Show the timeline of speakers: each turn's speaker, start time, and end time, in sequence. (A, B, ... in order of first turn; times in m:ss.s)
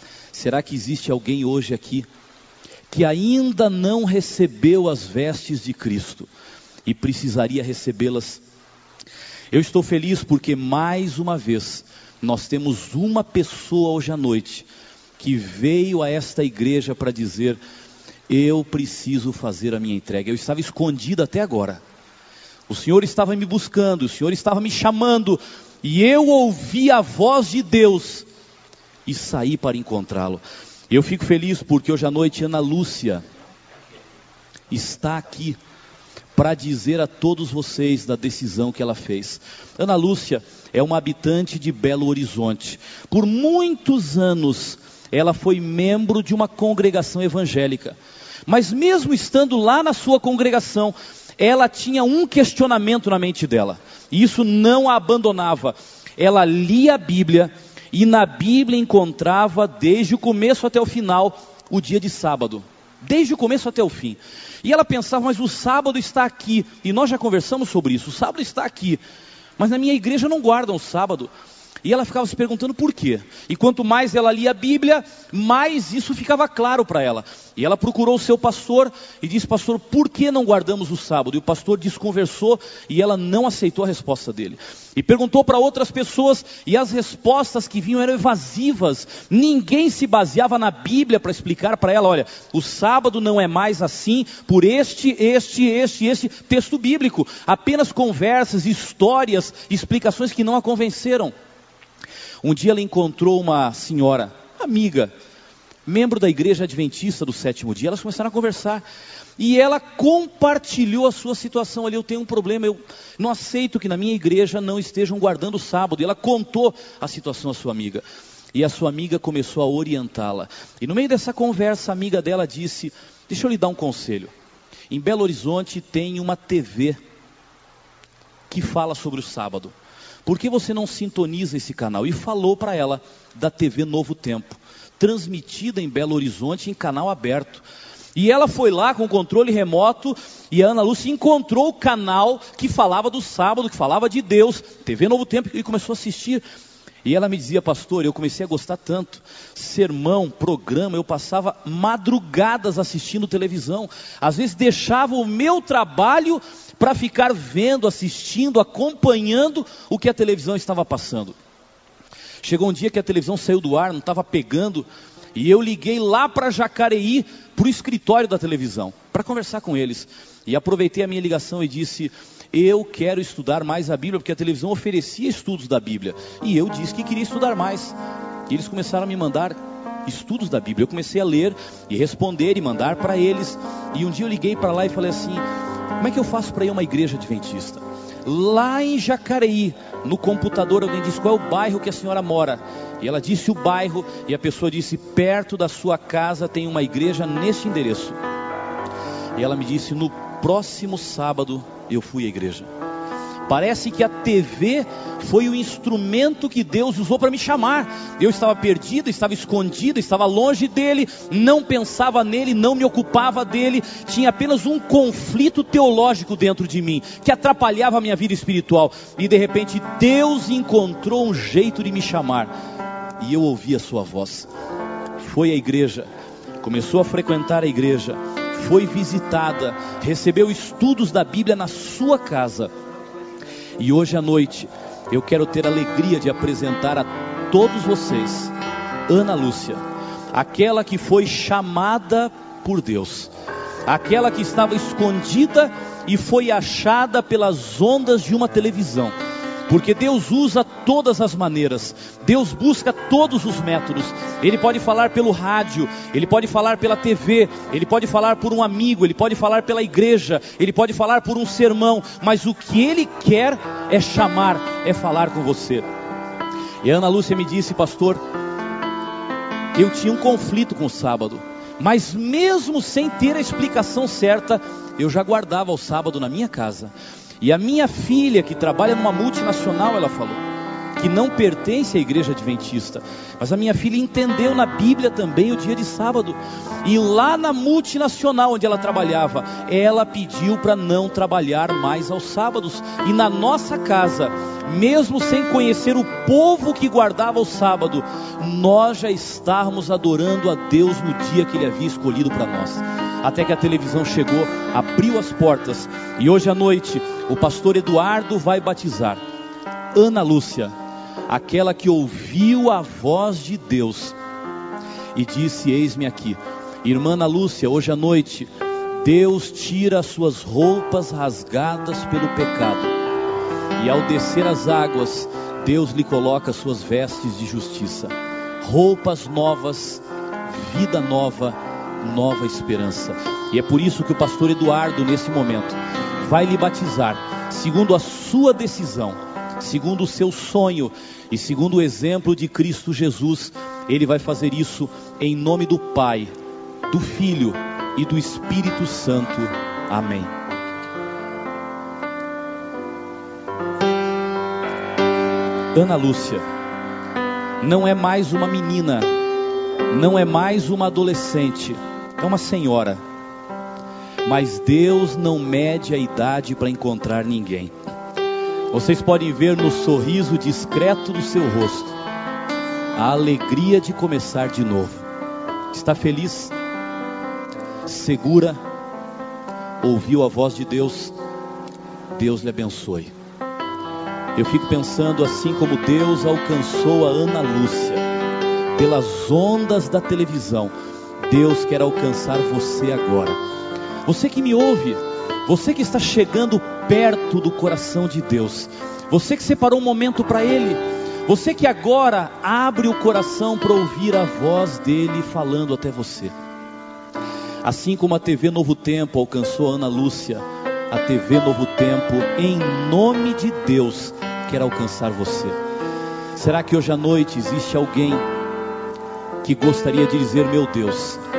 0:00.3-0:02.1 A
0:02.9-0:06.3 A
0:06.8-0:08.4 A
0:09.5-0:14.7 A
0:15.2-0:17.6 A
0:18.3-0:21.8 A
0:22.7-0:28.3 A
0:29.1-0:33.2 A
0:34.7-0:35.6 A
0:36.4-1:09.0 A
1:09.6-1:11.3 A
1:11.8-1:41.3 A
1:42.4-1:45.1 A
1:45.9-1:48.8 A
1:49.4-2:04.3 A
2:04.9-2:07.0 A
2:08.5-2:09.7 A
2:10.3-2:17.6 A
2:18.2-2:26.4 A
2:27.0-2:41.4 A
2:42.4-2:58.0 A
2:58.5-3:05.4 A
3:06.0-3:18.2 A
3:19.4-3:22.7 A
3:23.5-3:42.5 A
3:43.2-3:44.5 A
3:45.2-3:46.1 A
3:46.6-3:52.7 A
3:53.8-3:58.5 A
3:59.1-3:59.8 A
4:00.3-4:03.3 A
4:03.9-4:09.2 A
4:09.7-4:25.8 A
4:26.8-4:28.2 A
4:29.7-4:40.4 A
4:41.0-5:09.2 A
5:09.9-5:10.7 A
5:11.3-5:14.2 A
5:15.2-5:18.5 A
5:19.0-5:22.9 A
5:23.8-5:46.3 A
5:46.9-5:50.3 A
5:55.7-5:56.4 A
5:57.6-5:59.1 A
5:59.9-6:03.0 A
6:04.2-6:07.7 A
6:08.7-6:12.0 A
6:12.9-6:15.0 A
6:15.7-6:16.5 A
6:17.9-6:18.6 A
6:19.8-6:21.1 A
6:22.2-6:23.1 A
6:24.4-6:28.0 A
6:28.8-6:33.4 A
6:34.1-6:46.3 A
6:47.6-6:55.6 A
6:56.4-6:58.2 A
6:59.4-7:01.2 A